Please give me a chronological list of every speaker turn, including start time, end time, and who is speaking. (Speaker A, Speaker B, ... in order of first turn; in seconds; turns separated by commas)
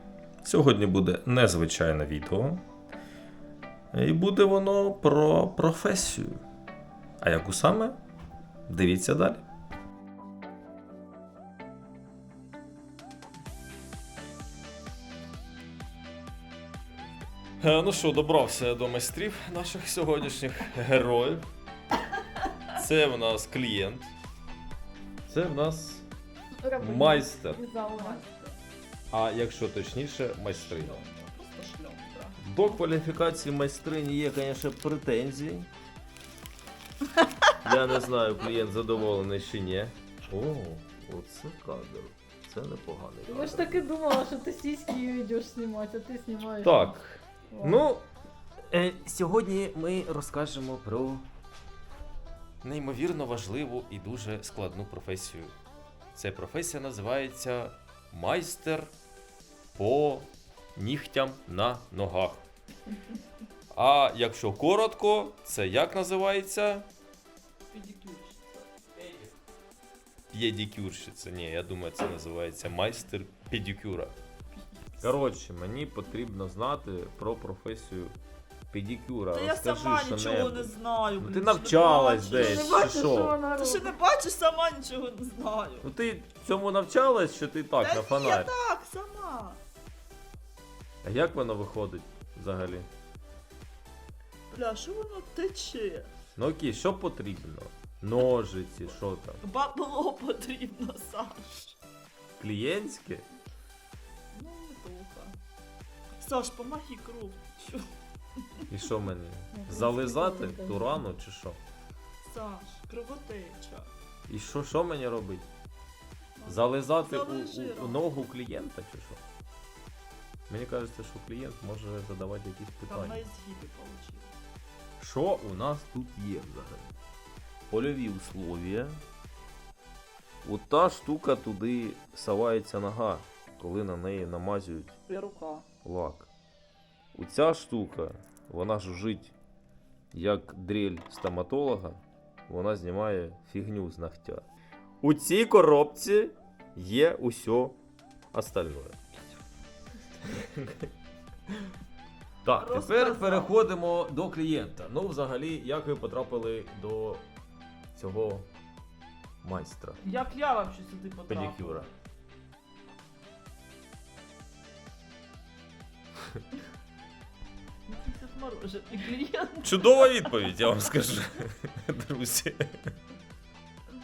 Speaker A: 0.4-2.6, Speaker A: 3.9-6.4, Speaker A: 7.2-8.0, Speaker A: 8.7-9.4, Speaker A: 17.6-21.4, Speaker A: 22.7-24.1, Speaker A: 25.3-26.1, Speaker B: 26.6-28.2, Speaker A: 26.8-27.6, Speaker C: 27.8-28.6, Speaker A: 29.1-31.0, Speaker C: 30.5-32.5, Speaker A: 32.4-35.7, Speaker A: 37.6-43.9, Speaker B: 43.3-47.0, Speaker A: 46.6-48.0, Speaker B: 47.5-47.9, Speaker A: 48.7-51.2, Speaker A: 52.6-55.5, Speaker A: 56.1-58.9, Speaker A: 59.8-62.4, Speaker A: 63.7-66.9, Speaker C: 67.7-68.9, Speaker A: 70.3-74.1, Speaker A: 75.0-78.2, Speaker A: 78.7-83.3, Speaker C: 79.3-83.0, Speaker B: 82.1-83.9, Speaker C: 83.5-85.9, Speaker A: 85.8-88.5, Speaker C: 87.8-89.6, Speaker A: 91.0-92.9, Speaker C: 94.5-96.1, Speaker A: 96.4-99.4, Speaker C: 99.4-101.8, Speaker A: 102.4-103.3, Speaker C: 104.3-105.4, Speaker C: 106.2-107.9, Speaker A: 108.7-111.6, Speaker B: 109.5-111.0, Speaker C: 112.2-113.9, Speaker A: 114.3-115.5, Speaker C: 116.4-118.0, Speaker A: 116.4-119.2, Speaker A: 120.5-123.2, Speaker C: 122.9-124.3, Speaker A: 125.0-127.0, Speaker A: 127.7-129.0, Speaker A: 130.4-135.0, Speaker C: 135.1-135.7, Speaker A: 135.8-136.3, Speaker A: 137.1-139.3, Speaker A: 140.1-144.5, Speaker A: 145.0-147.8, Speaker A: 148.3-149.0, Speaker A: 150.2-150.9, Speaker A: 152.4-157.2, Speaker C: 152.5-153.6, Speaker A: 157.9-158.5, Speaker A: 159.4-160.0, Speaker C: 160.0-161.9, Speaker A: 161.3-161.9, Speaker C: 167.9-170.4, Speaker A: 169.6-172.9